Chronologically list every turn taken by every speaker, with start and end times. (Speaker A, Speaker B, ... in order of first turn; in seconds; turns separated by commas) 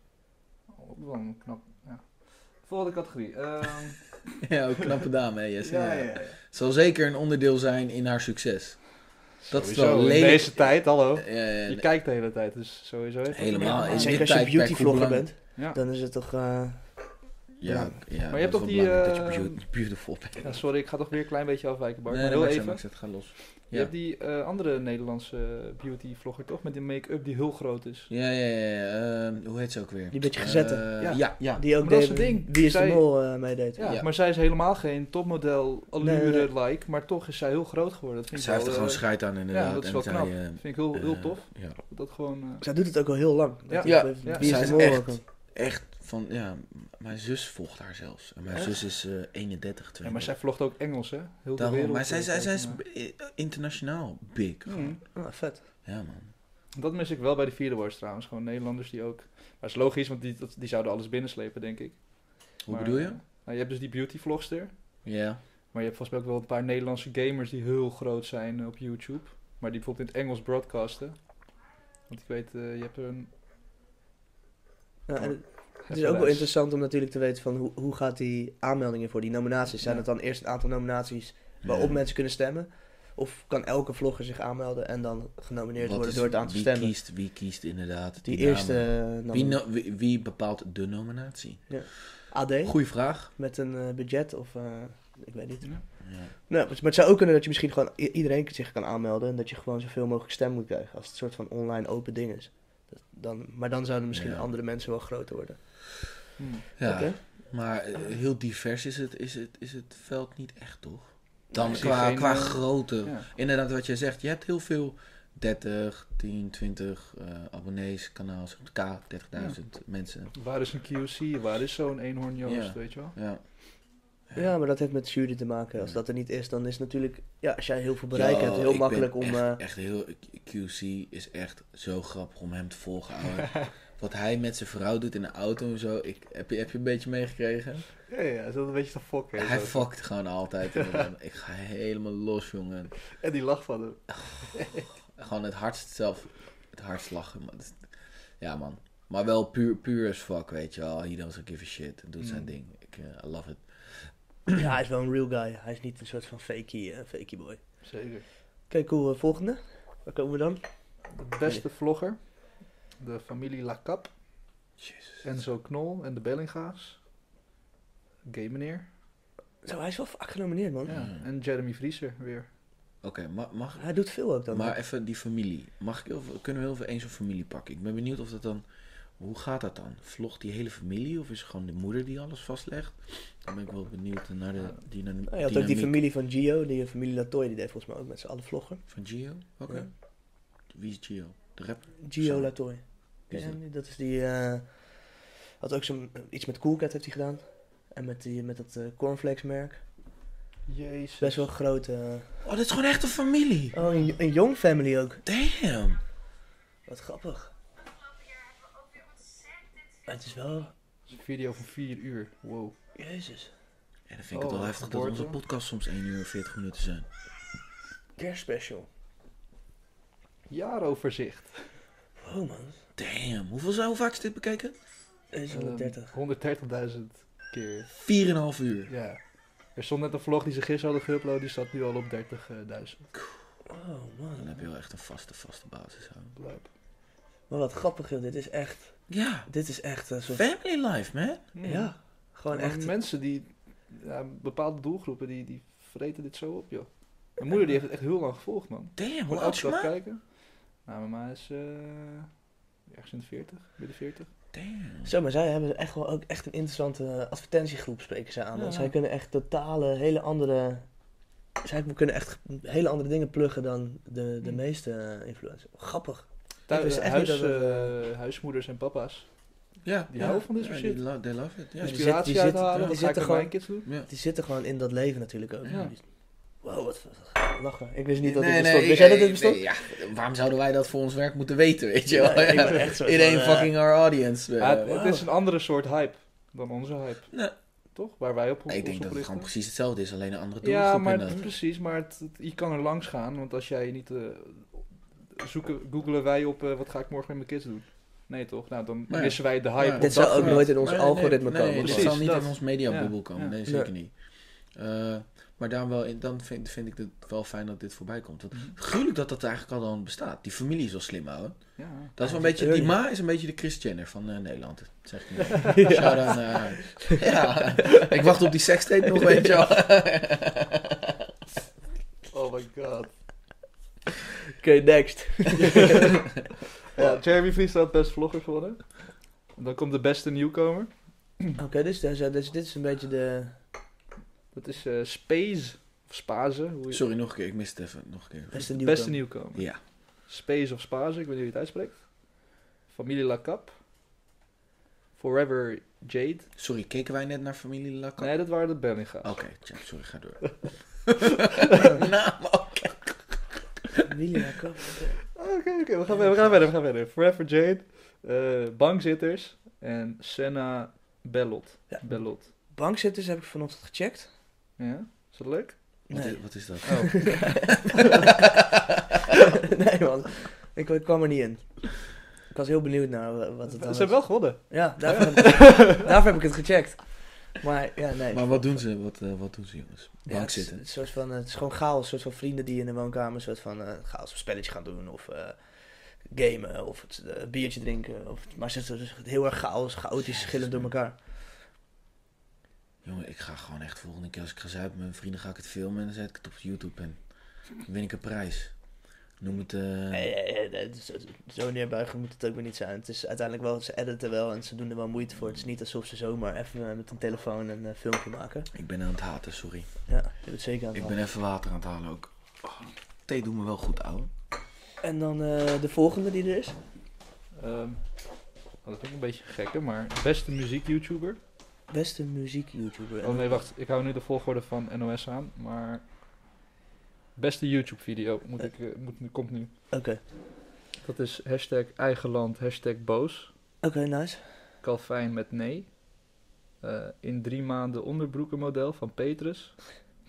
Speaker A: 0.8-4.5, Speaker B: 4.4-11.8, Speaker A: 5.6-6.4, Speaker A: 9.4-14.3, Speaker B: 13.3-15.3, Speaker C: 13.6-18.0, Speaker B: 17.6-20.6, Speaker A: 18.3-19.6, Speaker A: 20.4-28.1, Speaker B: 22.1-23.9, Speaker B: 28.1-31.6, Speaker C: 30.1-33.9, Speaker A: 31.0-42.6, Speaker C: 36.0-36.5, Speaker B: 38.3-41.8, Speaker C: 42.6-45.2, Speaker A: 43.7-44.9, Speaker B: 43.8-50.3, Speaker A: 50.0-52.8, Speaker B: 51.6-55.0, Speaker A: 54.7-55.0, Speaker C: 55.1-55.6, Speaker B: 55.9-56.3, Speaker A: 56.8-65.0, Speaker B: 62.6-63.2, Speaker B: 65.0-65.4, Speaker A: 65.7-71.5, Speaker A: 72.1-73.3, Speaker C: 75.1-87.0, Speaker A: 75.2-76.5, Speaker B: 81.6-82.0, Speaker B: 85.8-93.3, Speaker C: 88.2-89.6, Speaker C: 91.7-106.2, Speaker B: 96.0-96.3, Speaker B: 104.1-104.5, Speaker A: 106.4-106.7, Speaker B: 106.8-120.3, Speaker C: 106.8-107.2, Speaker C: 111.5-111.8, Speaker A: 111.7-113.3, Speaker A: 120.3-123.2, Speaker B: 122.4-123.4, Speaker C: 124.3-129.6, Speaker B: 128.1-137.9, Speaker A: 138.1-139.9, Speaker B: 139.4-143.0, Speaker A: 140.7-141.1, Speaker A: 143.2-144.9, Speaker B: 144.2-144.4, Speaker B: 145.1-154.6, Speaker A: 152.2-152.5, Speaker C: 154.6-157.6, Speaker A: 157.8-158.2, Speaker C: 158.7-160.6, Speaker A: 161.2-162.2, Speaker A: 163.0-164.1, Speaker B: 164.8-165.2, Speaker A: 165.2-167.0, Speaker A: 168.3-168.9, Speaker C: 169.6-170.9, Speaker A: 170.9-172.5, Speaker B: 170.9-171.2, Speaker B: 173.0-173.9, Speaker C: 173.8-174.8, Speaker B: 174.5-178.7, Speaker B: 179.2-186.0, Speaker C: 185.3-188.9, Speaker B: 188.9-189.9, Speaker B: 190.6-192.6, Speaker C: 192.0-199.8, Speaker B: 193.3-193.6, Speaker A: 200.7-201.5, Speaker C: 201.2-202.3, Speaker B: 202.4-203.8, Speaker C: 203.7-205.2, Speaker B: 205.2-206.0, Speaker C: 206.9-207.5, Speaker C: 210.1-210.7, Speaker A: 211.1-212.8, Speaker C: 212.9-213.5, Speaker B: 214.1-217.1, Speaker A: 214.3-215.4, Speaker C: 218.2-218.9, Speaker A: 220.5-221.7, Speaker C: 222.2-222.8, Speaker B: 223.0-224.8, Speaker C: 225.3-226.1, Speaker A: 225.5-227.9, Speaker B: 227.9-228.9, Speaker A: 228.9-229.2, Speaker A: 229.8-233.1, Speaker C: 233.7-234.5, Speaker B: 234.4-236.3, Speaker A: 236.4-236.7, Speaker C: 237.5-240.4, Speaker B: 239.1-239.5, Speaker B: 240.3-241.5, Speaker A: 241.6-241.9, Speaker C: 241.6-242.9, Speaker A: 242.5-250.2, Speaker B: 249.0-249.9, Speaker A: 250.8-252.3, Speaker A: 252.9-254.3, Speaker B: 254.5-255.1, Speaker C: 255.0-260.9, Speaker A: 258.6-258.9, Speaker C: 261.6-267.9, Speaker A: 266.7-269.3, Speaker B: 269.8-272.1, Speaker A: 270.1-271.0, Speaker C: 271.8-276.1, Speaker A: 271.8-273.9, Speaker C: 276.6-279.6, Speaker B: 278.2-284.9, Speaker C: 282.1-283.7, Speaker A: 284.6-287.3, Speaker C: 284.9-285.2, Speaker A: 287.9-289.5, Speaker B: 288.7-291.4, Speaker A: 290.6-300.8, Speaker B: 299.1-321.1, Speaker C: 300.0-302.2, Speaker A: 301.8-303.6, Speaker C: 303.7-303.9, Speaker A: 311.8-312.1, Speaker C: 312.2-312.9, Speaker C: 315.7-317.2, Speaker A: 322.3-323.1, Speaker C: 324.6-326.2, Speaker A: 326.9-331.6, Speaker C: 331.6-333.6, Speaker A: 334.5-337.0, Speaker B: 336.9-338.7, Speaker C: 338.5-339.2, Speaker A: 338.6-342.4, Speaker B: 339.5-339.8, Speaker A: 342.9-343.7, Speaker A: 345.2-346.5, Speaker B: 346.6-348.4, Speaker A: 348.2-349.4, Speaker B: 349.2-353.4, Speaker C: 354.1-355.2, Speaker A: 355.4-362.5, Speaker C: 361.9-364.3, Speaker A: 364.8-365.9, Speaker C: 366.1-368.1, Speaker B: 366.1-368.6, Speaker A: 366.9-367.8, Speaker C: 369.6-378.8, Speaker A: 373.7-376.0, Speaker B: 378.3-380.8, Speaker C: 380.3-391.2, Speaker B: 390.2-390.9, Speaker B: 393.0-398.8, Speaker B: 399.4-400.3, Speaker C: 400.1-408.7, Speaker B: 408.7-409.9, Speaker C: 410.1-411.2, Speaker B: 410.9-414.3, Speaker C: 415.0-416.8, Speaker A: 417.6-418.0, Speaker A: 418.8-421.4, Speaker C: 421.9-423.6, Speaker A: 423.2-426.0, Speaker A: 427.4-429.7, Speaker C: 429.9-430.2, Speaker A: 431.0-433.5, Speaker C: 433.8-434.4, Speaker A: 434.8-436.0, Speaker A: 436.8-439.9